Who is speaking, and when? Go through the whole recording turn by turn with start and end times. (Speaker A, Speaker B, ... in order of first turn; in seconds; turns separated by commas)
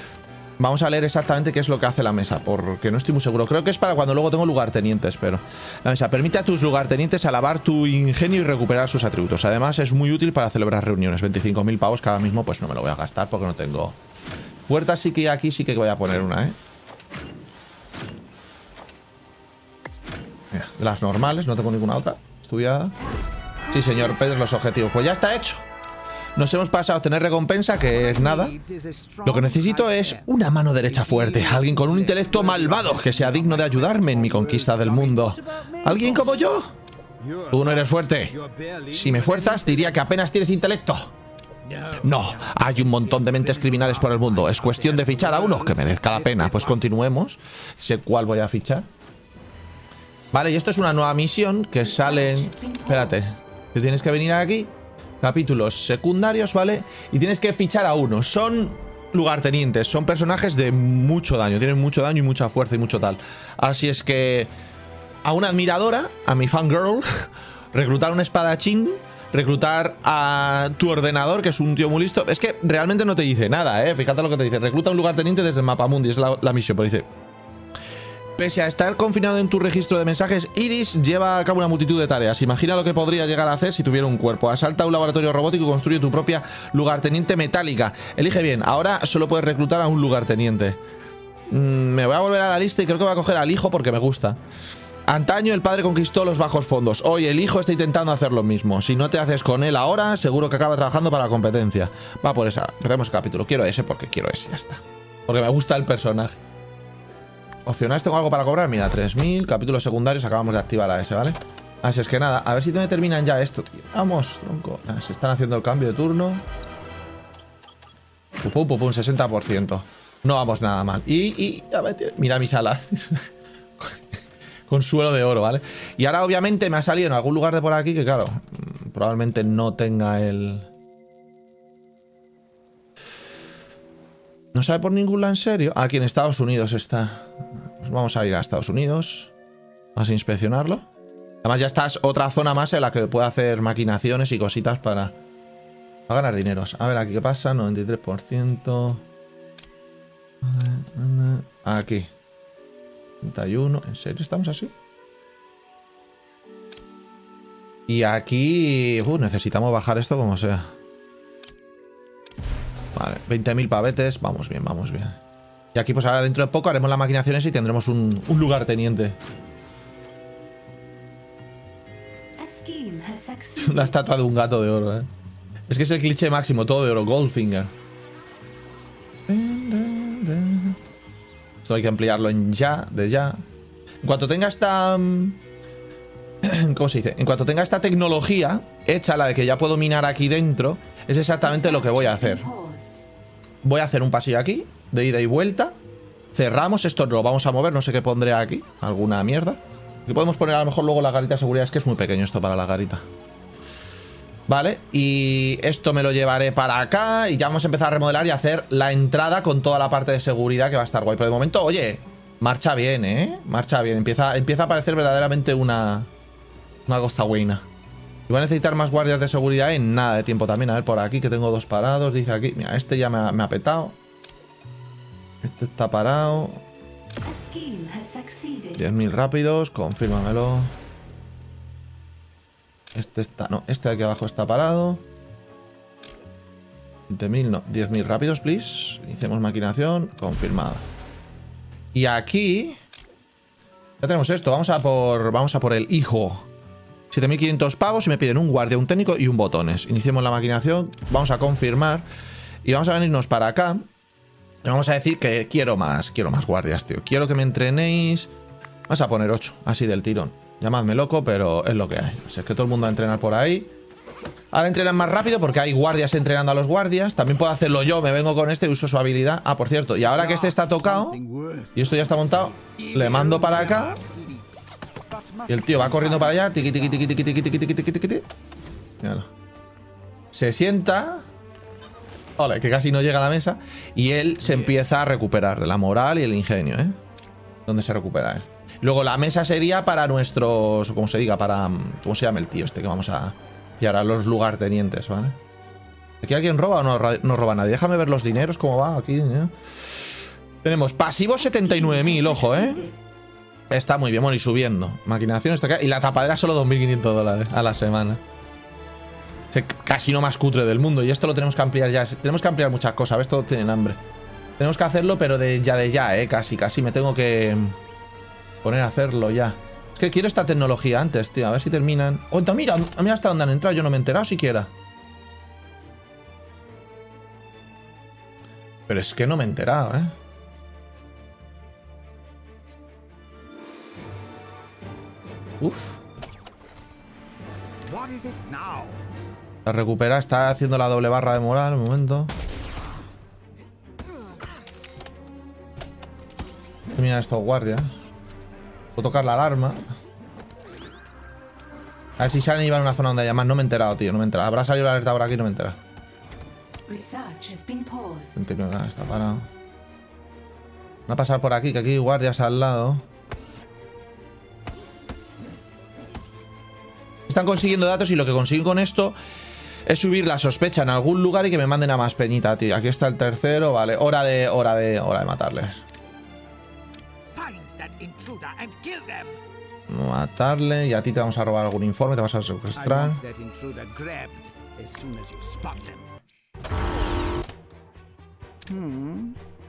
Speaker A: 0.6-14.0, Speaker A: 14.7-16.6, Speaker A: 20.5-23.0, Speaker B: 23.0-24.2, Speaker A: 23.7-25.6, Speaker A: 26.4-28.6, Speaker C: 27.9-36.6, Speaker A: 29.2-36.7, Speaker C: 37.2-40.1, Speaker A: 37.5-38.3, Speaker A: 38.9-41.1, Speaker C: 41.6-46.8, Speaker A: 42.0-48.9, Speaker A: 50.3-64.5, Speaker B: 51.8-53.4, Speaker A: 65.2-77.1, Speaker A: 78.4-90.8, Speaker A: 91.5-94.4, Speaker A: 95.1-106.4, Speaker A: 107.7-116.4, Speaker A: 118.4-124.0, Speaker A: 124.7-130.7, Speaker A: 134.5-139.3, Speaker A: 139.9-140.8, Speaker A: 141.4-145.1, Speaker A: 146.1-149.0, Speaker A: 150.4-152.1, Speaker A: 153.2-154.7, Speaker A: 157.9-160.7, Speaker A: 162.9-165.2, Speaker A: 165.7-169.2, Speaker B: 172.4-173.9, Speaker A: 173.6-175.1, Speaker A: 175.7-177.7, Speaker A: 179.3-180.8, Speaker A: 181.6-183.4, Speaker A: 184.0-185.4, Speaker A: 186.4-192.4, Speaker B: 191.4-193.0, Speaker A: 193.6-195.8, Speaker A: 196.3-203.0, Speaker A: 204.5-216.1, Speaker A: 216.9-217.6, Speaker A: 218.3-223.9, Speaker A: 225.4-226.6, Speaker B: 227.2-228.8, Speaker A: 228.8-230.7, Speaker A: 232.9-235.0, Speaker A: 237.1-240.9, Speaker A: 241.9-242.8, Speaker A: 244.0-246.5, Speaker A: 247.1-252.1, Speaker A: 252.6-253.9, Speaker A: 254.6-258.3, Speaker A: 258.9-263.7, Speaker A: 264.5-271.2, Speaker C: 270.0-277.2, Speaker A: 271.7-274.0, Speaker A: 275.5-278.3, Speaker A: 279.0-279.3, Speaker A: 280.3-281.3, Speaker A: 282.4-287.0, Speaker C: 284.4-284.9, Speaker A: 287.6-295.4, Speaker A: 296.2-299.5, Speaker A: 300.6-302.9, Speaker B: 301.4-303.0, Speaker A: 303.7-308.2, Speaker A: 309.5-314.0, Speaker A: 314.6-317.8, Speaker A: 318.6-324.7, Speaker A: 328.9-330.1, Speaker A: 335.6-336.0, Speaker C: 337.8-339.0, Speaker A: 339.6-342.3, Speaker A: 346.9-347.9, Speaker A: 348.9-349.8, Speaker A: 352.2-355.8, Speaker B: 356.9-358.5, Speaker A: 358.4-359.5, Speaker A: 361.1-363.0, Speaker A: 367.3-369.1, Speaker A: 369.9-375.8, Speaker C: 377.3-379.4, Speaker A: 379.9-383.2, Speaker C: 382.7-386.1, Speaker C: 388.6-389.4